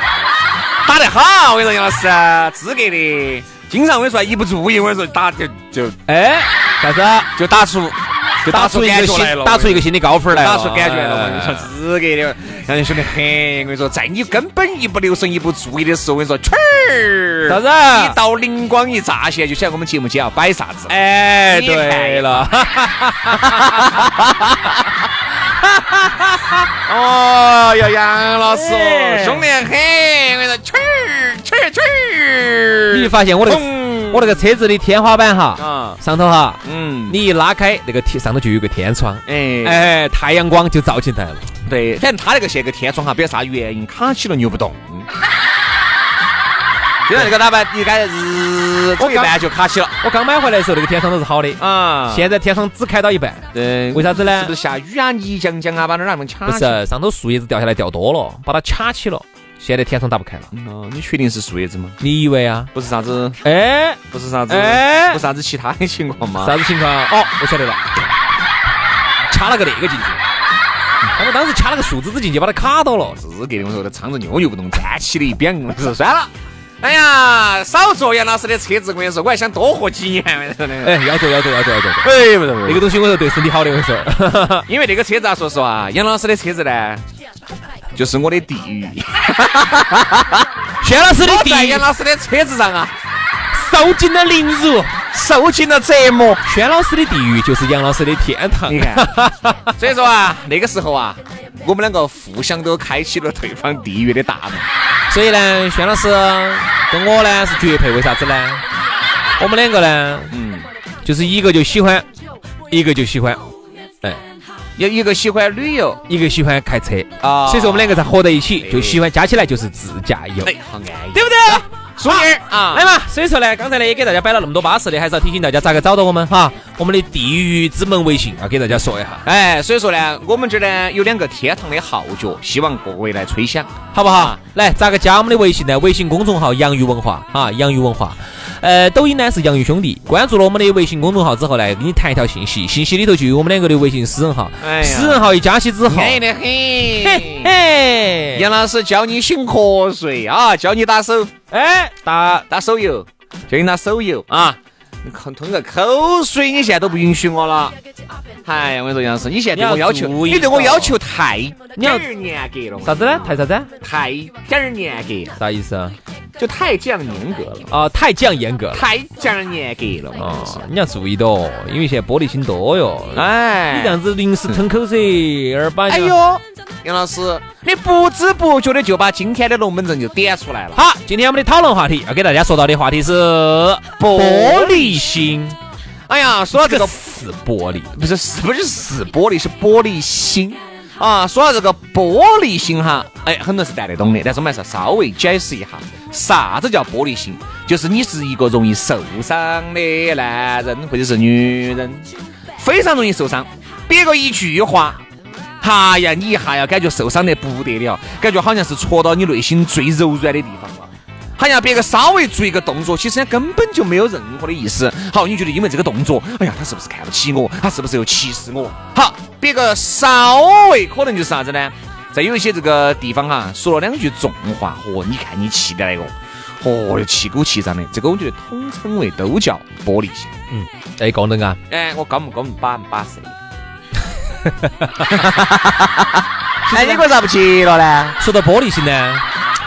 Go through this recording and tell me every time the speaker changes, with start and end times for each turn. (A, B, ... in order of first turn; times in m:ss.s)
0:00.8-0:06.0 A
0:06.1-0:07.3 B
0:07.4-0:22.7 A
0:08.5-0:11.7 B
0:17.4-0:18.2 B
0:20.9-0:24.2 B
0:23.3-0:24.8 A
0:25.5-0:26.7 B
0:26.8-0:34.4 A
0:28.5-0:29.4 B
0:32.9-0:41.5 B
0:35.6-0:36.0 A
0:36.6-0:37.2 A
0:39.2-0:39.8 A
0:41.6-0:45.1 A
0:47.0-0:50.0 A
0:49.0-0:49.3 B
0:50.0-0:54.5 B
0:51.6-0:52.3 A
0:53.5-0:56.8 A
0:56.4-1:00.5 B
1:00.5-1:02.0 A
1:02.0-1:02.7 B
1:02.7-1:03.4 A
1:03.4-1:05.2 B
1:04.1-1:06.6 A
1:06.4-1:07.8 B
1:09.3-1:10.2 B
1:11.1-1:13.2 B
1:13.1-1:21.0 A
1:20.8-1:24.6 B
1:22.0-1:22.8 A
1:24.7-1:27.0 A
1:27.9-1:30.4 A
1:30.8-1:31.8 B
1:31.2-1:33.0 A
1:33.5-1:35.0 B
1:35.1-1:36.4 A
1:36.4-1:39.7 B
1:38.7-1:39.2 A
1:39.8-1:44.7 A
1:45.1-1:48.6 B
1:49.4-1:50.3 B
1:50.3-1:50.7 A
1:51.0-1:52.0 B
1:52.7-1:53.4 B
1:54.8-1:56.0 A
1:56.1-2:00.5 B
1:57.2-1:58.1 A
1:58.6-1:59.0 A
2:00.4-2:02.8 A
2:01.1-2:09.2 B
2:09.2-2:14.4 A
2:13.9-2:26.2 B
2:24.6-2:25.3 A
2:25.8-2:27.5 A
2:26.8-2:28.5 B
2:28.3-2:31.3 A
2:31.5-2:32.5 B
2:32.5-2:37.8 A
2:38.4-2:45.4 A
2:39.5-2:41.0 B
2:41.8-2:42.1 B
2:42.8-2:43.7 B
2:45.4-2:46.0 B
2:46.4-2:47.7 A
2:47.7-2:48.8 B
2:48.7-2:50.6 A
2:50.1-2:56.2 B
2:53.1-2:54.0 A
2:55.9-3:00.8 A
3:00.7-3:05.6 B
3:04.0-3:05.2 A
3:06.1-3:07.0 A
3:06.5-3:07.9 B
3:07.9-3:25.0 A
3:25.6-3:50.4 A
3:50.5-3:51.6 B
3:51.7-3:53.4 A
3:54.4-3:55.1 B
3:55.1-3:58.2 A
3:56.6-3:57.0 B
3:58.2-3:59.2 B